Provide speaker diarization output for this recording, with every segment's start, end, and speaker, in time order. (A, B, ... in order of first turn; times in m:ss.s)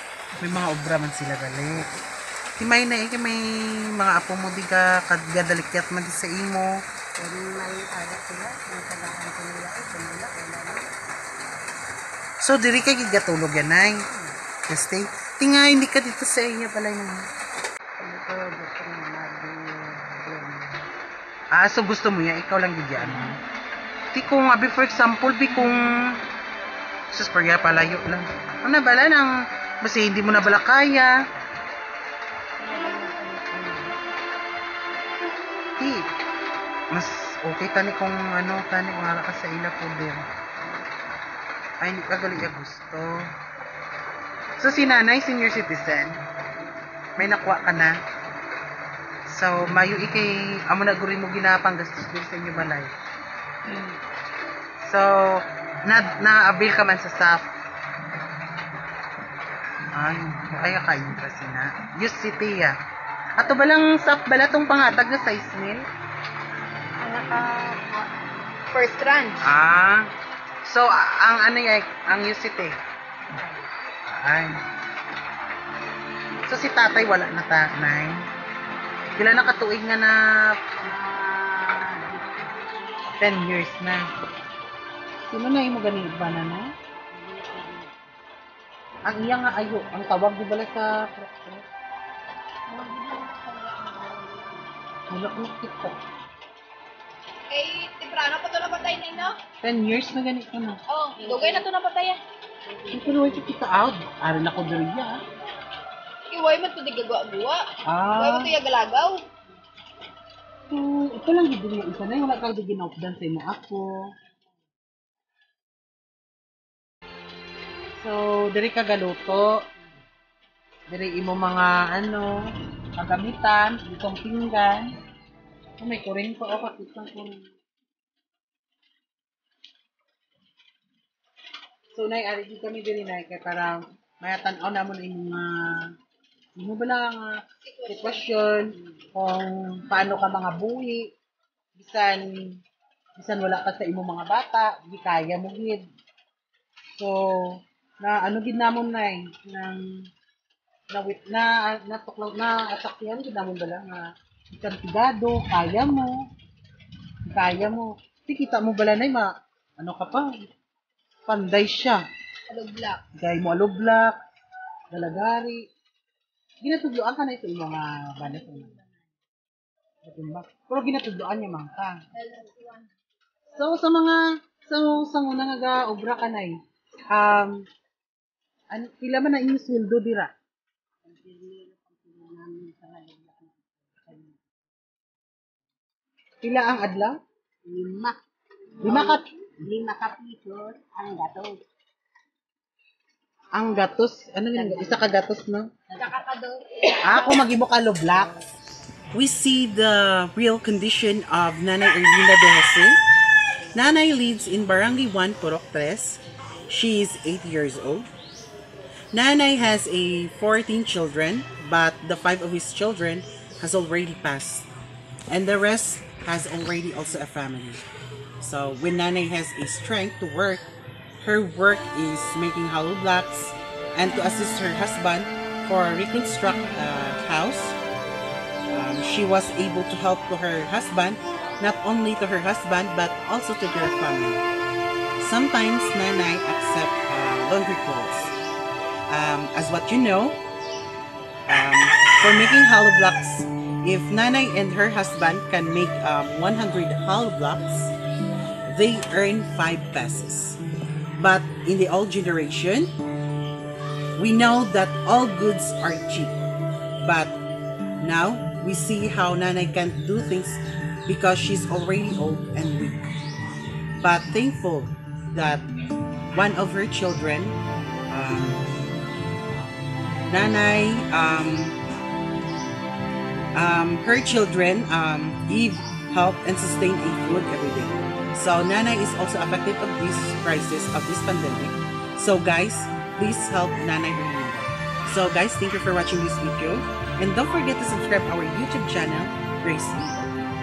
0:00.4-0:01.8 A
0:02.6-0:06.8 A
0:07.2-0:10.9 B
0:12.4-0:14.0 A
0:14.7-0:17.2 A
0:18.0-0:20.8 B
0:21.5-0:23.4 A
0:23.0-0:23.3 B
0:24.1-0:26.2 A
0:27.1-0:29.3 A
0:29.8-0:31.2 A
0:32.6-0:33.9 B
0:35.8-0:36.1 A
0:36.9-0:40.2 A
0:41.8-0:43.2 A
0:44.6-0:46.2 A
0:47.2-0:48.0 A
0:49.3-0:52.9 A
0:53.7-0:53.9 A
0:54.8-0:57.5 A
0:59.9-1:02.8 A
1:03.4-1:05.8 A
1:07.1-1:07.9 C
1:08.7-1:09.4 C
1:09.4-1:10.1 A
1:10.6-1:12.8 A
1:14.1-1:14.6 A
1:16.4-1:18.2 A
1:19.2-1:20.5 A
1:20.8-1:22.7 B
1:23.2-1:24.0 A
1:25.3-1:26.7 A
1:27.1-1:28.0 B
1:29.0-1:31.6 A
1:32.7-1:34.7 B
1:35.1-1:36.0 A
1:37.5-1:39.4 C
1:39.6-1:40.8 A
1:40.9-1:42.2 C
1:41.2-1:41.6 B
1:42.7-1:43.6 B
1:42.9-1:45.2 A
1:46.3-1:49.2 C
1:47.8-1:48.6 A
1:50.7-1:53.9 A
1:58.0-1:59.5 A
2:00.9-2:02.4 A
2:03.0-2:04.8 A
2:05.8-2:07.4 A
2:11.9-2:15.8 A
2:16.6-2:21.0 A
2:17.8-2:18.4 C
2:21.8-2:22.2 A
2:23.2-2:25.8 A
2:27.0-2:29.8 A
2:30.9-2:36.1 A
2:37.3-2:40.4 A
2:41.3-2:42.0 A
2:42.5-2:43.0 C
2:43.1-2:44.2 A
2:44.9-2:45.6 A
2:46.6-2:48.8 A
2:50.0-2:52.0 A
2:52.2-2:52.7 C
2:53.5-2:56.5 A
2:57.1-2:57.5 A
2:58.7-3:00.3 A
3:01.0-3:04.4 B
3:06.4-3:07.2 A
3:07.6-3:08.2 B
3:08.8-3:11.6 B
3:08.8-3:09.2 A
3:13.5-3:15.7 A
3:14.5-3:15.2 B
3:15.9-3:16.6 B
3:17.0-3:18.4 A
3:19.1-3:23.0 A
3:23.7-3:28.1 A
3:29.1-3:34.7 A
3:35.3-3:37.8 A
3:38.4-3:40.6 A
3:41.2-3:47.8 A
3:48.7-3:54.5 A
3:55.2-3:58.3 A
3:59.1-4:00.4 A
4:01.5-4:07.9 A
4:08.7-4:10.6 A
4:11.2-4:12.9 A
4:14.2-4:16.4 A
4:17.0-4:17.3 A
4:18.0-4:23.0 A
4:24.0-4:25.6 A
4:26.3-4:27.6 A
4:28.1-4:28.6 A
4:30.3-4:31.8 A
4:33.5-4:50.3 A